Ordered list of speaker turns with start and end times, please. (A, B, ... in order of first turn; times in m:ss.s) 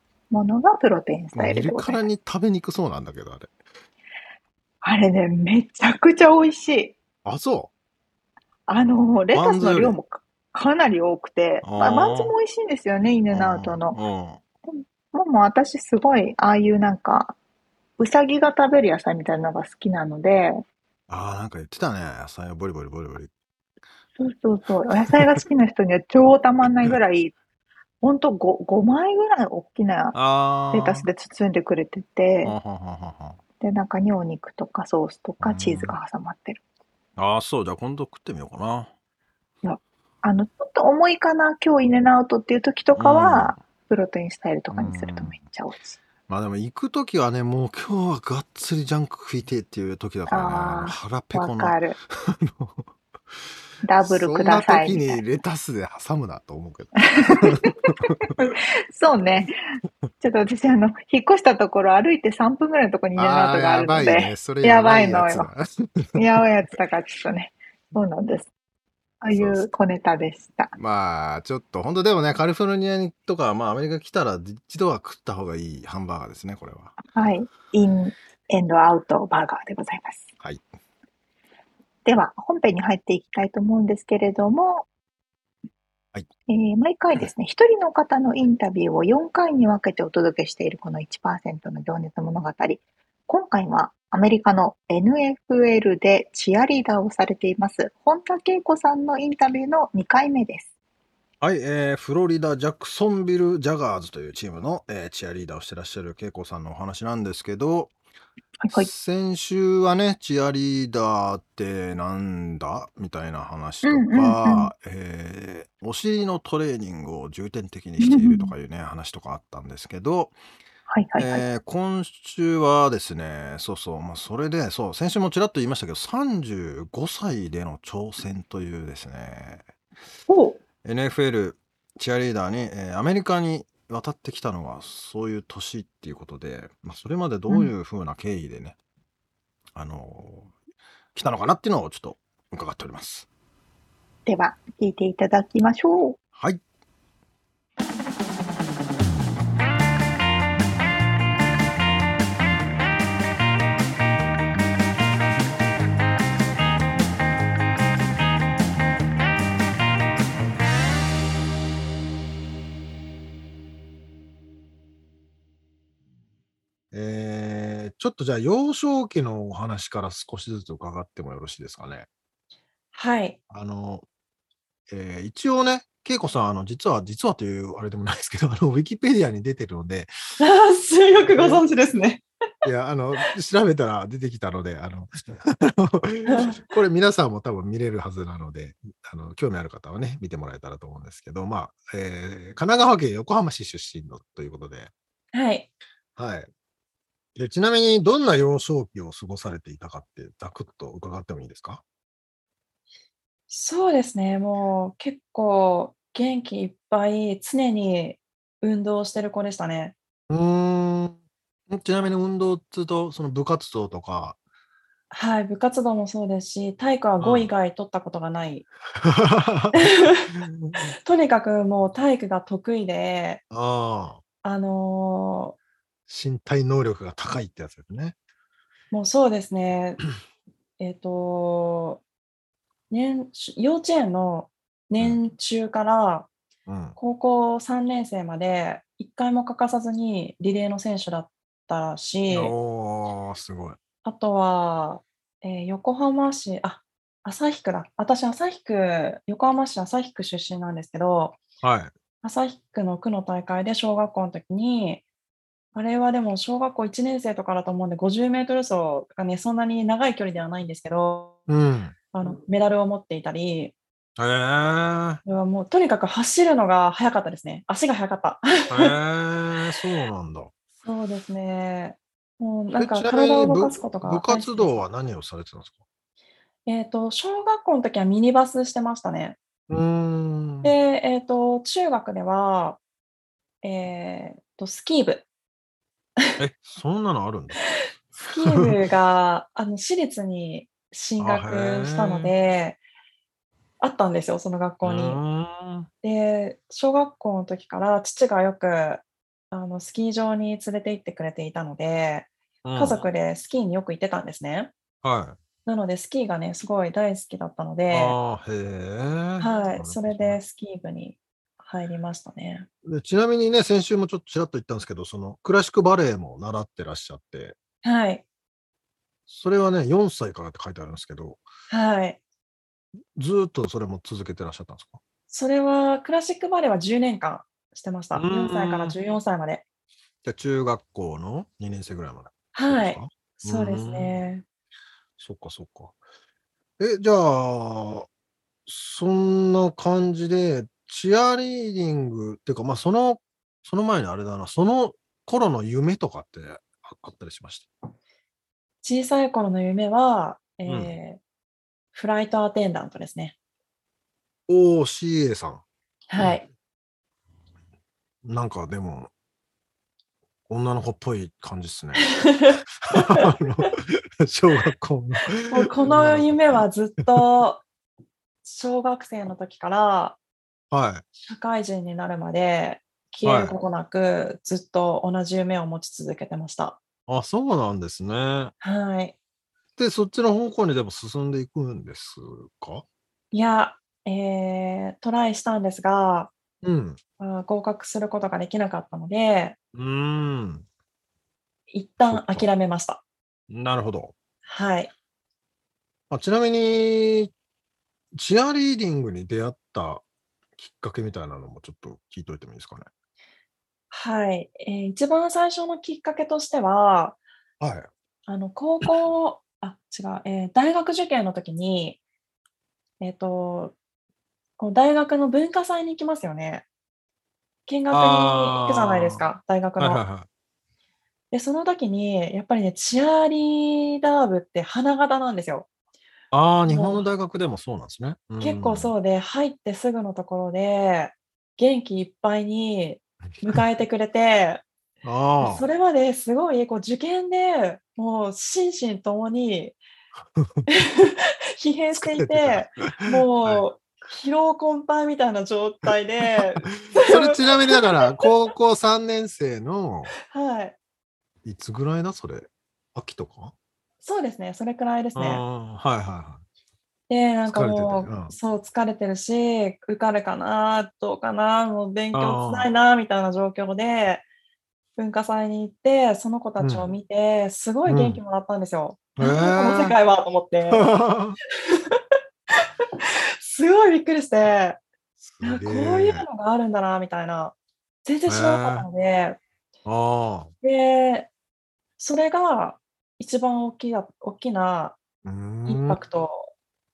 0:00.3-0:02.0 A
0:01.3-0:03.5 B
0:04.8-0:07.0 A
0:07.2-0:07.7 B
0:08.7-0:14.0 A
0:09.3-0:10.0 B
0:11.6-0:12.3 B
0:13.3-0:14.4 B
0:14.7-0:17.4 A
0:18.0-0:20.6 A
0:21.1-0:23.3 B
0:24.2-0:27.3 A
0:28.0-0:30.2 A
0:30.1-0:31.1 B
0:30.7-0:32.5 A
0:32.4-0:33.4 B
0:33.6-0:36.6 A
0:35.4-0:35.9 B
0:37.2-0:38.9 B
0:39.6-0:46.0 A
0:42.9-0:43.6 B
0:44.7-0:45.3 B
0:46.3-0:52.8 B
0:50.3-0:52.0 A
0:53.8-0:55.2 A
0:54.0-0:58.3 B
0:57.2-0:59.6 A
1:00.2-1:05.5 A
1:03.2-1:06.2 B
1:06.2-1:08.5 A
1:09.2-1:10.7 A
1:09.3-1:09.7 B
1:10.8-1:17.0 B
1:17.1-1:20.3 A
1:22.0-1:24.8 A
1:26.5-1:40.7 A
1:41.4-1:47.9 B
1:48.6-1:48.9 A
1:48.7-2:00.3 B
1:53.8-1:54.7 A
1:58.0-1:58.5 A
2:00.9-2:01.4 A
2:01.2-2:09.6 B
2:10.3-2:10.6 A
2:10.8-2:18.8 B
2:19.7-2:20.5 B
2:21.1-2:23.3 B
2:24.2-2:26.2 A
2:26.4-2:26.6 B
2:46.9-2:52.1 B
2:52.9-2:53.4 C
2:53.5-2:54.0 B
2:54.9-3:00.1 B
3:00.4-3:02.2 C
3:01.1-3:01.6 B
3:02.6-3:14.9 B
3:06.3-3:06.6 C
3:15.3-3:15.7 C
3:16.2-3:16.5 B
3:17.3-3:21.8 B
3:23.5-3:29.9 C
3:30.3-3:31.2 B
3:31.7-3:34.4 B
3:35.1-3:38.6 C
3:37.2-3:37.5 B
3:39.0-3:40.9 B
3:39.7-3:40.3 C
3:41.0-3:43.4 C
3:43.5-3:44.2 B
3:44.4-3:45.6 C
3:46.1-3:48.1 B
3:48.9-3:50.0 C
3:50.8-3:52.0 C
3:52.9-3:56.3 C
3:56.6-3:57.0 B
3:57.0-4:02.5 C
4:02.3-4:03.8 B
4:04.0-4:11.4 C
4:11.6-4:11.9 B
4:12.2-4:15.0 C
4:15.7-4:21.4 C
4:21.5-4:21.9 B
4:22.1-4:23.7 C
4:24.2-4:25.2 B
4:25.2-4:28.9 C
4:28.7-4:30.5 B
4:30.8-4:34.8 C
4:32.7-4:35.8 B
4:36.6-4:39.4 C
4:39.7-4:40.7 B
4:40.6-4:42.8 C
4:43.6-4:45.2 C
4:46.4-4:47.6 B
4:48.1-4:52.8 C
4:48.3-4:48.7 B
4:51.2-4:52.3 B
4:53.8-4:55.2 C
4:54.8-4:55.9 B
4:56.0-5:04.7 C
5:02.6-5:03.0 B
5:05.0-5:05.4 B
5:05.6-5:08.2 C
5:07.9-5:10.4 B
5:09.4-5:12.7 C
5:12.8-5:17.6 B
5:17.8-5:18.2 C
5:19.3-5:21.4 B
5:21.7-5:22.2 C
5:23.2-5:25.0 B
5:25.3-5:29.6 C
5:28.1-5:28.9 B
5:30.2-5:34.2 B
5:32.5-5:34.4 C
5:35.2-5:36.0 B
5:36.8-5:38.1 B
5:38.7-5:47.7 B
5:48.8-5:51.2 C
5:50.6-5:51.0 B
5:51.9-5:53.3 C
5:54.5-5:55.6 B
5:56.1-5:56.4 C
5:58.2-5:59.1 B
6:00.5-6:02.1 B
6:02.1-6:03.2 C
6:02.8-6:07.2 B
6:05.5-6:07.6 C
6:08.4-6:10.2 C
6:10.7-6:11.0 B
6:11.2-6:16.8 C
6:13.2-6:13.5 B
6:17.1-6:18.5 B
6:18.6-6:19.1 C
6:19.8-6:22.8 B
6:23.3-6:26.3 C
6:26.6-6:27.0 B
6:27.2-6:29.6 C
6:29.7-6:30.6 B
6:31.7-6:33.0 C
6:32.0-6:32.4 B
6:33.5-6:34.1 B
6:34.4-6:34.9 C
6:36.1-6:37.3 B
6:38.1-6:40.0 B
6:40.6-6:42.9 B
6:43.9-6:47.2 C
6:47.6-6:47.9 B
6:48.3-6:52.0 C
6:53.0-6:53.7 C
6:54.6-6:56.6 C
6:57.7-7:00.0 C
6:57.9-6:59.3 B
6:59.8-7:00.3 B
7:01.3-7:05.7 C
7:06.3-7:08.9 B
7:06.7-7:07.0 C
7:08.4-7:14.6 C
7:15.0-7:15.6 B
7:15.4-7:19.8 C
7:20.4-7:20.6 B
7:20.7-7:28.3 C
7:21.9-7:23.6 B
7:26.3-7:30.1 B
7:30.3-7:30.8 C
7:31.4-7:33.5 B
7:34.0-7:35.4 C
7:35.1-7:36.4 B
7:37.1-7:44.2 C
7:37.5-7:38.3 B
7:42.1-7:42.7 B
7:45.0-7:50.9 C
7:46.6-7:46.9 B
7:47.8-7:48.2 B
7:49.2-7:50.0 B
7:50.7-7:51.4 B
7:51.7-7:52.0 C
7:53.4-7:54.8 C
7:55.2-7:56.2 B
7:55.4-7:59.4 C
7:58.3-7:58.9 B
7:59.8-8:00.5 B
8:00.6-8:01.3 C
8:02.0-8:05.0 C
8:05.2-8:06.0 B
8:05.6-8:06.5 C